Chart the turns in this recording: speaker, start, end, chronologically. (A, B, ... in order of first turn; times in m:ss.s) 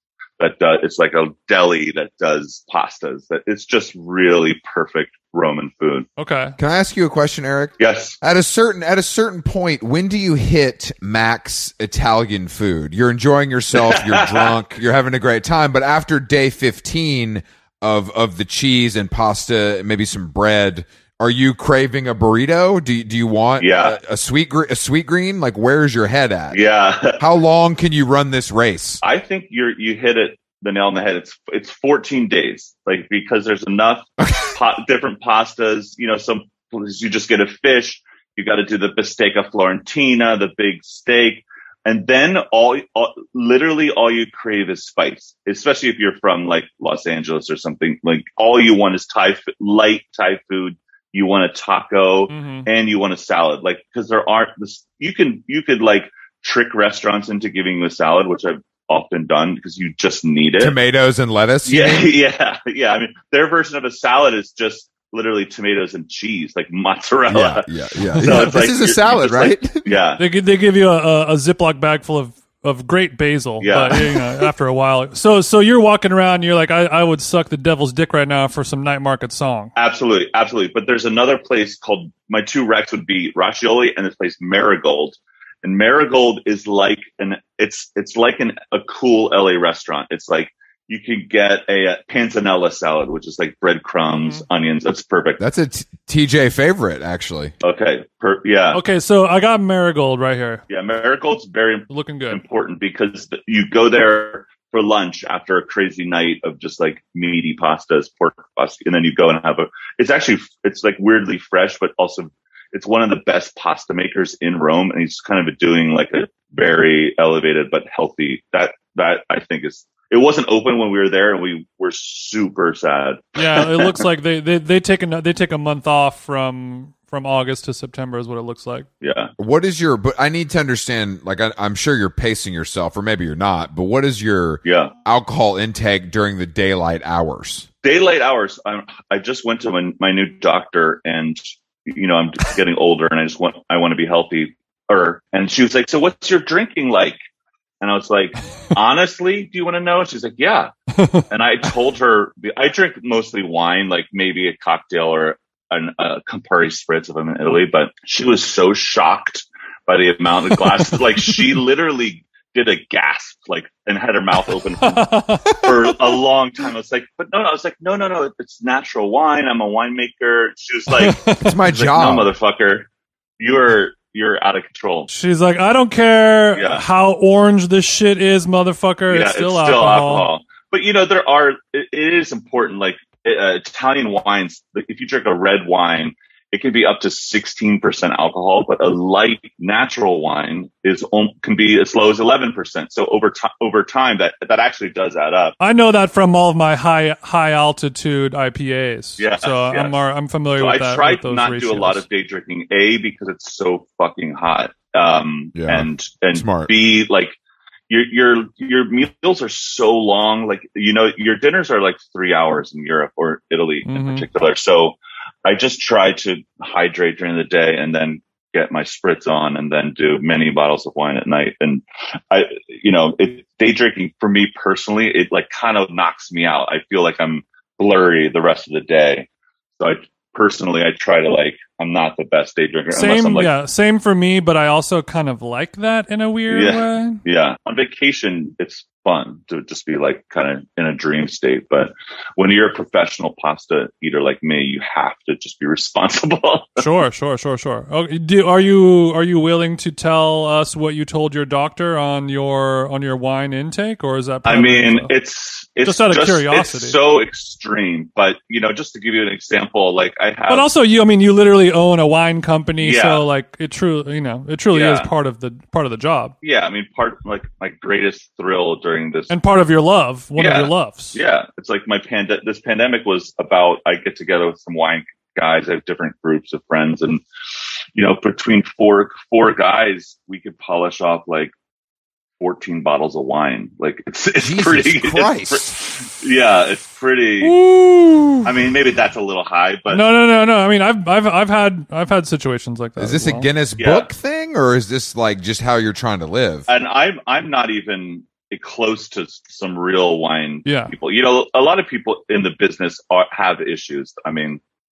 0:00.4-0:06.1 A
0:06.2-0:06.6 B
0:06.6-0:26.6 C
0:07.8-0:08.2 A
0:13.8-0:14.5 A
0:23.6-0:24.0 A
0:26.5-0:27.2 A
0:27.2-0:29.0 C
0:29.0-1:00.8 A
0:34.2-0:34.5 C
0:52.3-0:52.7 B
1:00.6-1:02.1 C
1:01.6-1:10.2 A
1:07.3-1:09.9 C
1:10.2-1:19.7 B
1:13.6-1:14.1 A
1:19.8-1:35.4 A
1:34.1-1:34.4 B
1:35.4-1:37.5 C
1:37.6-1:38.8 A
1:38.7-1:40.6 B
1:40.7-2:04.0 A
1:41.9-1:42.4 B
2:03.4-2:08.9 B
2:09.0-2:09.3 A
2:09.4-2:17.7 C
2:14.6-2:14.9 A
2:17.8-2:27.2 A
2:27.8-2:30.7 A
2:31.0-2:31.3 B
2:31.3-2:55.1 A
2:44.8-2:45.6 B
2:50.9-2:51.6 B
2:51.4-2:52.3 C
2:55.1-3:00.3 B
2:56.6-2:56.9 A
2:59.1-3:15.6 A
3:15.6-3:22.0 B
3:19.2-3:19.9 A
3:20.6-3:27.4 A
3:25.6-3:26.7 C
3:27.9-3:49.3 A
3:33.8-3:34.2 B
3:49.8-3:53.5 A
3:52.9-3:57.2 B
3:56.5-4:06.8 A
4:06.8-4:15.1 B
4:14.4-4:20.7 A
4:15.8-4:17.0 B
4:20.5-4:26.3 B
4:22.8-4:23.2 A
4:24.7-4:25.1 A
4:26.4-4:29.3 A
4:29.3-4:31.2 B
4:30.4-4:37.2 A
4:38.0-4:41.5 A
4:42.4-4:47.6 A
4:44.4-4:45.8 C
4:47.4-4:48.5 C
4:48.4-4:50.0 A
4:49.9-4:53.5 B
4:53.0-4:56.7 C
4:53.8-4:54.1 A
4:56.7-5:04.6 A
5:00.7-5:00.9 B